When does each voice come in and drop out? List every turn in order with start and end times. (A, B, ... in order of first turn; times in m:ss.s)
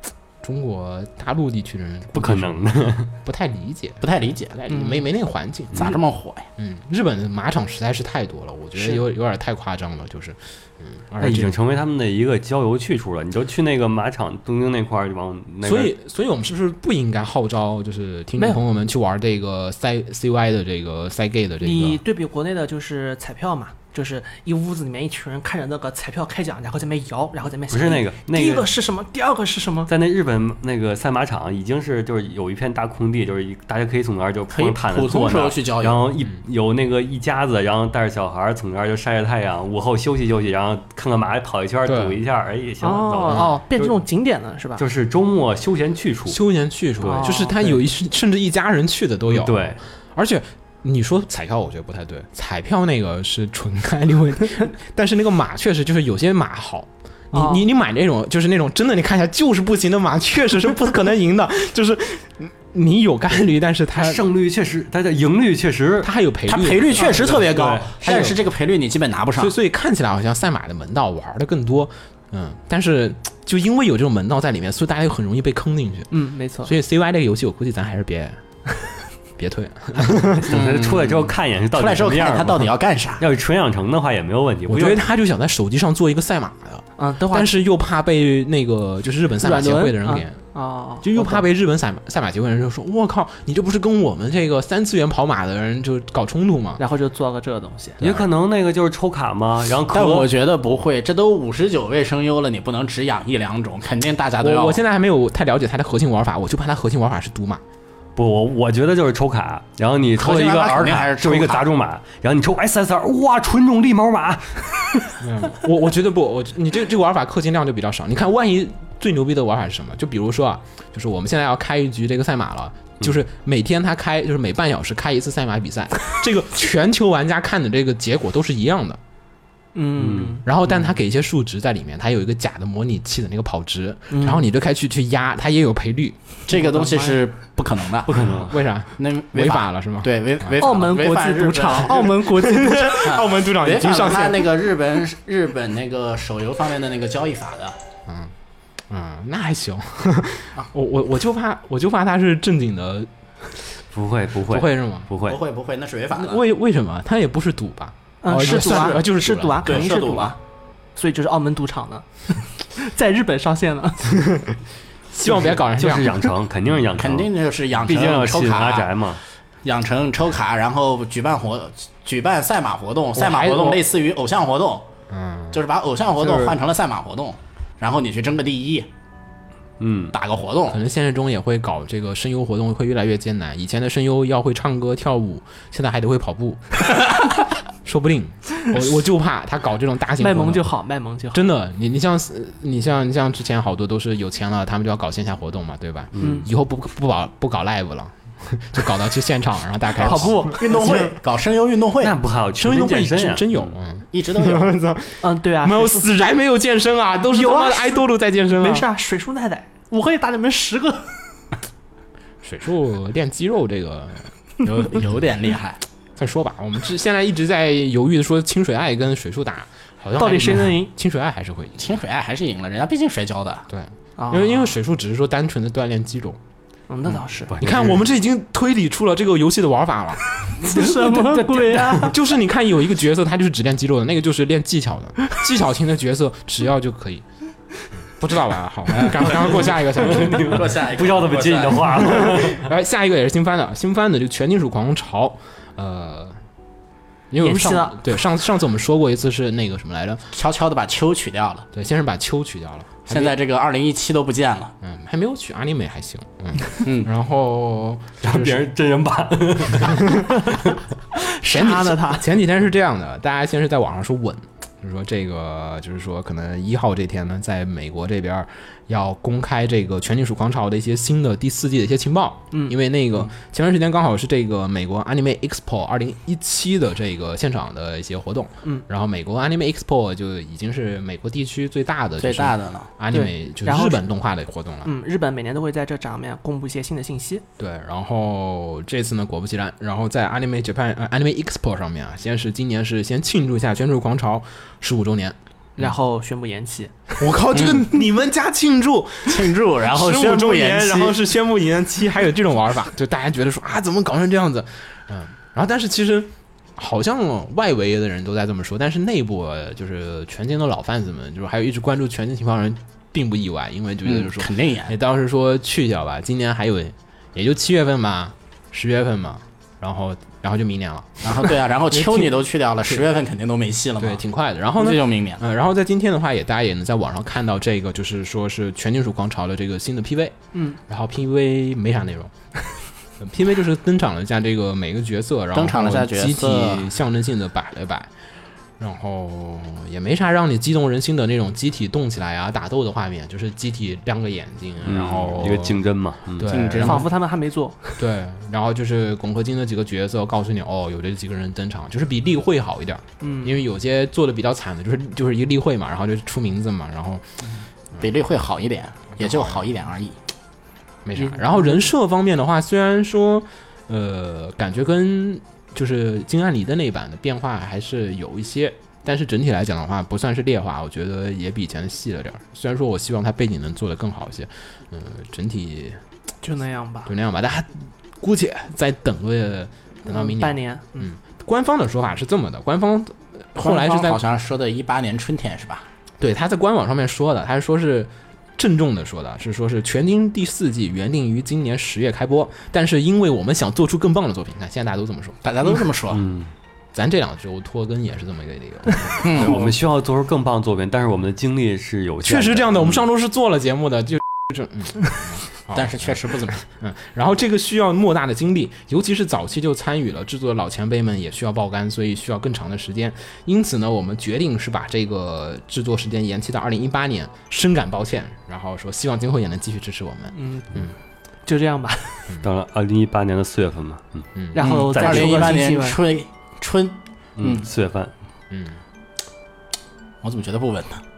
0:00.4-0:02.6 A
0:02.1-0:03.1 B
0:03.2-0:06.0 A
0:04.0-0:04.6 C
0:04.7-0:05.0 D
0:05.8-0:06.5 C
0:06.6-0:11.6 A
0:11.2-0:15.9 B
0:15.6-0:22.0 A
0:21.6-0:29.9 D
0:27.7-0:28.7 B
0:29.9-0:44.0 B
0:34.5-0:36.0 C
0:41.8-0:42.2 A
0:42.8-0:44.8 D
0:43.3-0:43.6 A
0:44.8-0:46.4 B
0:46.3-1:04.2 A
0:47.0-0:47.8 B
0:47.0-0:47.6 D
0:49.3-0:49.8 B
0:57.3-0:57.6 D
1:03.9-1:06.1 B
1:06.0-1:07.4 A
1:06.5-1:09.5 C
1:07.1-1:08.3 B
1:08.0-1:08.4 A
1:09.4-1:16.1 A
1:16.1-1:16.7 D
1:16.6-1:18.4 A
1:19.4-1:20.6 A
1:20.3-1:25.1 B
1:20.5-1:23.2 C
1:24.7-1:30.4 A
1:27.0-1:27.6 D
1:29.4-1:31.4 D
1:31.0-1:36.8 A
1:36.8-1:38.0 D
1:38.0-1:38.3 A
1:38.0-1:40.3 B
1:39.9-1:44.8 C
1:44.4-1:47.6 A
1:48.2-1:55.1 B
1:50.2-1:51.7 C
1:55.2-2:09.0 A
2:09.7-2:10.4 D
2:10.0-2:10.4 B
2:10.4-2:16.2 A
2:14.1-2:14.4 D
2:16.5-2:22.2 C
2:16.5-2:17.2 D
2:18.1-2:18.6 B
2:18.2-2:20.7 A
2:20.6-2:23.0 D
2:22.1-2:24.5 A
2:23.0-2:27.8 C
2:28.1-2:28.3 A
2:28.9-2:33.1 A
2:33.9-2:35.4 B
2:34.5-2:35.1 A
2:35.2-2:36.4 C
2:36.1-2:39.9 A
2:38.2-2:40.4 D
2:38.6-2:38.9 C
2:39.6-2:40.4 C
2:41.0-2:44.1 D
2:45.1-2:46.3 A
2:45.2-2:49.2 B
2:47.0-2:49.0 C
2:49.6-2:54.9 C
2:53.1-2:53.8 A
2:55.1-2:55.6 A
2:55.5-2:58.9 C
2:56.2-2:56.6 B
2:59.8-3:00.2 B
3:00.1-3:00.8 C
3:00.7-3:06.9 A
3:07.8-3:10.7 A
3:10.2-3:11.5 D
3:11.3-3:21.1 A
3:16.2-3:16.5 B
3:16.2-3:16.5 D
3:20.0-3:21.1 D
3:20.0-3:22.1 C
3:22.0-3:23.7 B
3:22.6-3:28.9 A
3:24.1-3:24.7 C
3:25.2-3:26.2 D
3:27.3-3:28.0 D
3:28.6-3:31.2 D
3:32.4-3:35.0 A
3:34.6-3:35.8 C
3:36.2-3:41.8 A
3:40.2-3:40.9 D
3:41.8-3:43.6 C
3:43.7-3:46.4 A
3:44.2-3:44.7 D
3:46.9-3:47.5 D
3:47.1-3:50.4 A
3:47.5-3:48.0 B
3:50.5-3:52.2 D
3:52.0-3:57.2 A
3:58.1-4:00.7 A
3:58.9-3:59.3 C
3:59.3-4:02.7 B
4:00.2-4:02.2 C
4:01.9-4:06.4 A
4:07.3-4:10.2 A
4:07.4-4:08.0 D
4:10.3-4:11.7 C
4:11.7-4:13.4 A
4:13.1-4:14.7 C
4:14.8-4:18.6 A
4:16.8-4:17.1 C
4:18.2-4:20.1 B
4:19.8-4:20.4 A
4:21.1-4:22.3 D
4:21.4-4:44.9 A
4:42.2-4:42.9 C
4:43.1-4:44.1 D
4:44.8-4:47.4 D
4:47.6-4:55.9 A
4:55.8-4:56.9 D
4:57.2-5:23.0 A
4:57.5-4:57.8 C
4:59.3-5:01.2 C
5:14.0-5:14.9 C
5:21.2-5:24.2 C
5:24.0-5:30.4 A
5:24.8-5:25.4 C
5:30.5-5:30.8 D
5:30.9-5:32.3 A
5:33.2-5:38.1 A
5:35.5-5:36.8 C
5:38.8-5:45.8 A
5:44.8-5:46.5 B
5:46.3-5:47.1 A
5:46.5-5:47.1 C
5:46.8-5:48.0 D
5:48.0-5:57.2 A
5:53.2-5:53.6 D
5:58.0-6:00.2 C
5:59.2-5:59.6 A
6:01.0-6:16.0 A
6:01.2-6:01.9 D
6:16.4-6:17.1 D
6:17.0-6:24.2 A
6:20.1-6:21.1 D
6:23.6-6:25.8 C
6:26.2-6:35.4 A
6:35.4-6:36.2 C
6:36.1-6:36.5 B
6:36.9-6:39.6 A
6:39.2-6:39.7 C
6:39.2-6:43.0 B
6:42.2-7:00.9 A
6:45.7-6:46.6 C
7:00.3-7:00.9 D
7:01.4-7:02.3 D
7:02.4-7:04.3 B
7:04.3-7:04.6 A
7:04.5-7:06.0 D
7:04.6-7:07.6 C
7:04.9-7:05.5 B
7:07.4-7:08.1 B
7:08.5-7:08.8 A
7:10.2-7:11.0 C